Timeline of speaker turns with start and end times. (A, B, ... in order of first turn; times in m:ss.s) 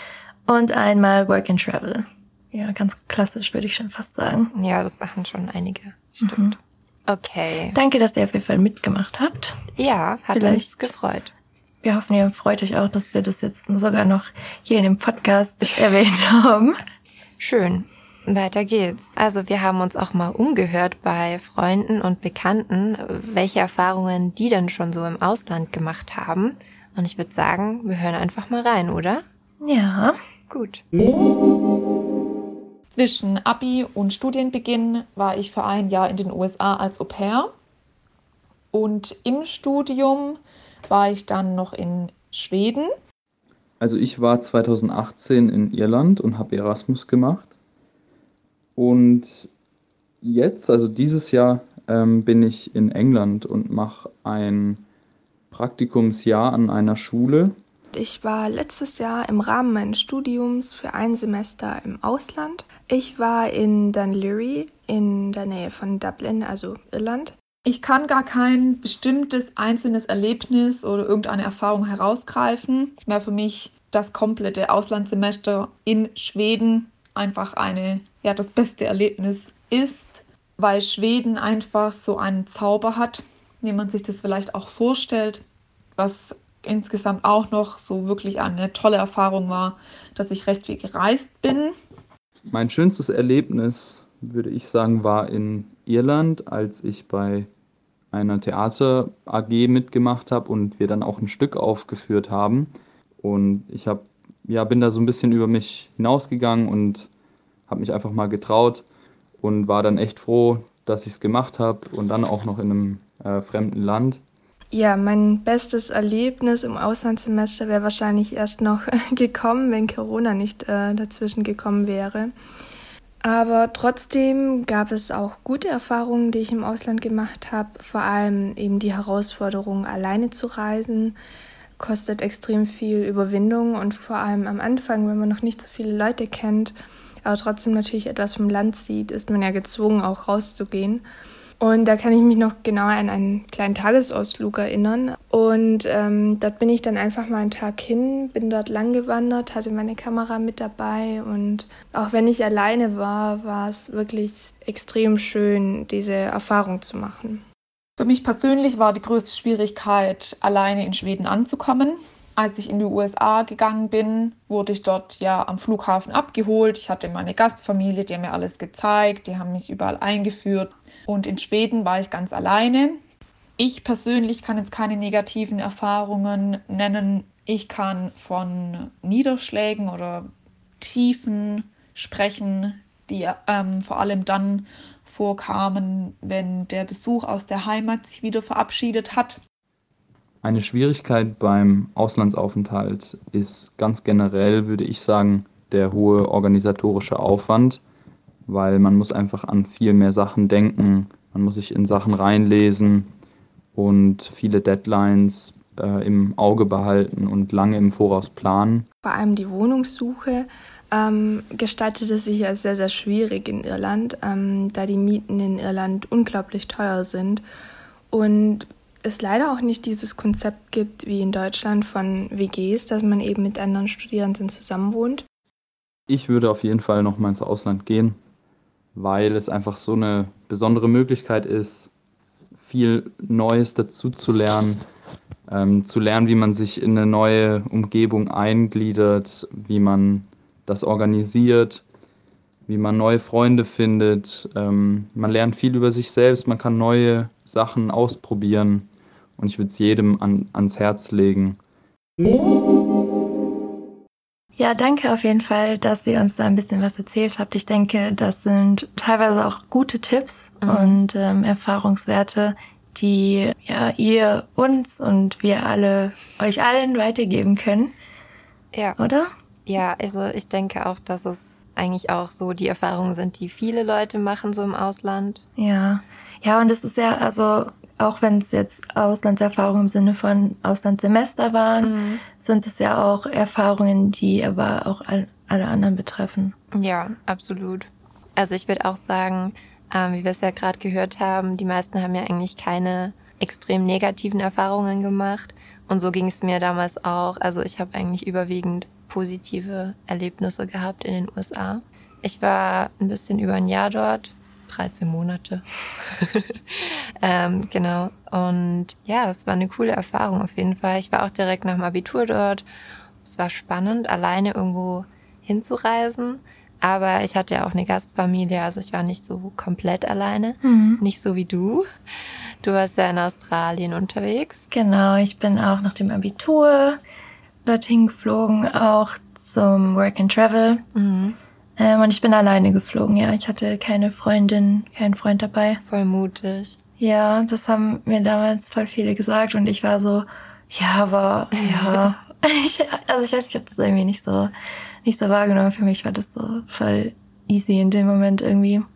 0:00.5-0:04.5 A
0:04.5-0:07.8 B
0:06.2-0:06.5 A
0:07.7-0:09.6 A
0:09.8-0:11.3 B
0:10.3-0:10.9 A
0:11.8-0:16.8 A
0:17.4-0:29.2 B
0:29.6-0:30.2 A
0:30.5-0:30.8 B
0:32.9-0:37.5 C
0:38.7-0:42.9 C
0:43.8-0:47.5 D
0:48.8-0:49.5 D
0:50.2-0:54.8 D
0:55.5-0:57.6 D
0:57.9-1:07.3 E
1:07.6-1:25.4 C
1:26.0-1:31.7 C
1:32.5-1:37.5 D
1:38.1-1:42.7 D
1:43.2-1:47.1 D
1:47.7-1:48.8 D
1:49.4-1:54.2 D
1:54.7-2:02.3 E
2:03.2-2:11.2 E
2:11.8-2:21.0 E
2:21.6-2:37.4 E
2:38.0-2:53.0 C
2:53.6-3:09.4 C
3:10.4-3:17.8 D
3:18.5-3:23.1 D
3:23.7-3:28.8 D
3:29.0-3:37.4 E
3:38.1-3:45.2 E
3:46.1-3:48.2 D
3:49.0-3:51.9 D
3:52.6-3:54.8 D
3:55.5-4:01.8 D
4:02.7-4:08.8 D
4:09.4-4:11.6 D
4:14.6-4:27.9 A
4:20.6-4:21.0 B
4:28.7-4:29.0 B
4:29.0-4:29.3 A
4:29.6-4:35.4 B
4:35.6-4:46.5 A
4:41.8-4:42.2 B
4:46.7-5:12.6 B
5:13.2-5:21.9 B
5:20.6-5:21.0 A
5:22.6-5:24.6 B
5:24.7-5:27.0 A
5:27.6-5:30.8 A
5:30.9-5:31.4 B
5:31.8-5:35.8 A
5:35.8-5:36.8 B
5:37.0-5:44.5 A
5:41.6-5:42.0 B
5:45.0-5:48.9 A